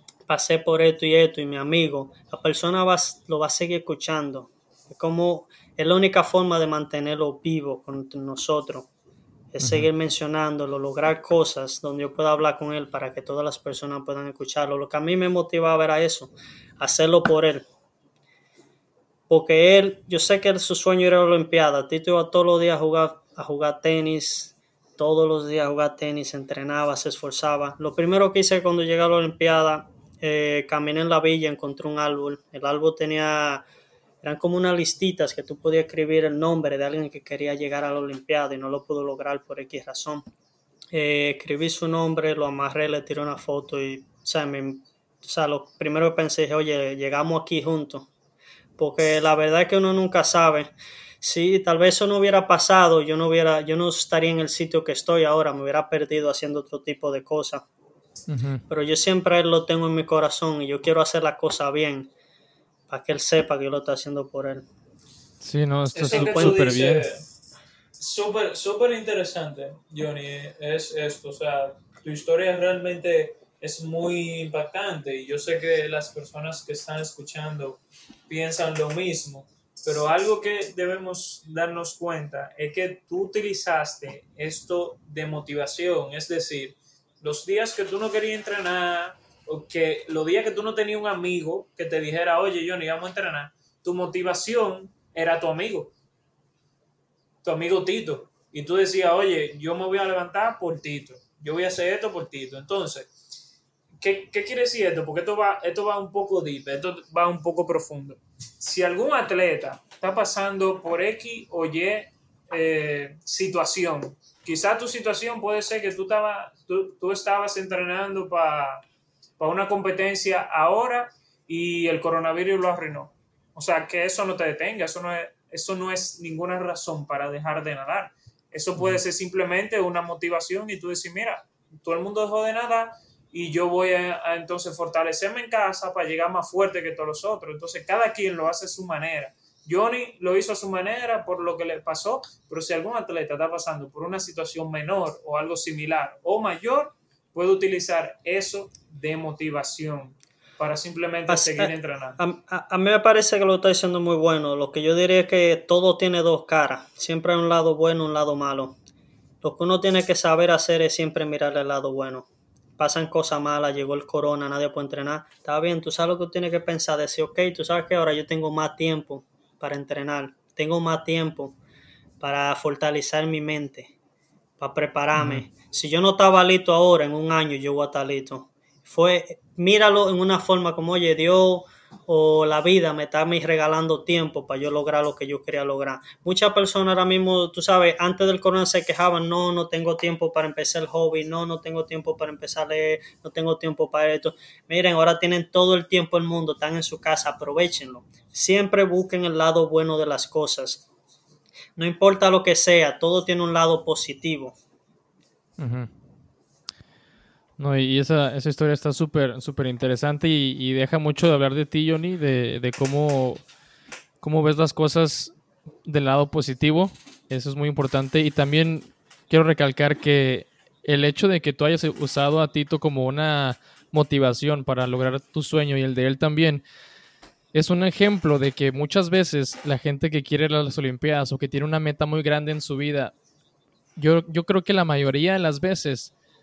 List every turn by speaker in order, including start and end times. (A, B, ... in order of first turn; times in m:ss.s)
0:00.3-0:08.9 A
0:09.5-0:17.7 A
0:19.3-0:33.6 A
0:34.2-0:40.2 A
0:40.9-0:48.1 A
0:48.8-0:57.6 A
0:58.3-0:58.6 B
0:58.7-1:02.1 A
1:02.9-1:04.6 A
1:05.4-1:07.1 B
1:05.9-1:07.3 C
1:06.1-1:06.7 A
1:08.0-1:35.9 C
1:37.4-1:43.1 C
1:44.0-1:58.8 C
1:59.4-2:32.2 C
2:31.3-2:38.8 A
2:39.4-2:42.3 A
2:42.8-2:51.6 A
2:52.2-2:53.9 A
2:54.6-3:20.8 A
2:55.2-2:55.4 B
3:21.8-3:24.6 A
3:25.6-3:25.9 B
3:27.6-3:33.4 B
3:34.2-3:46.6 B
3:47.5-3:53.1 B
3:54.0-3:56.1 B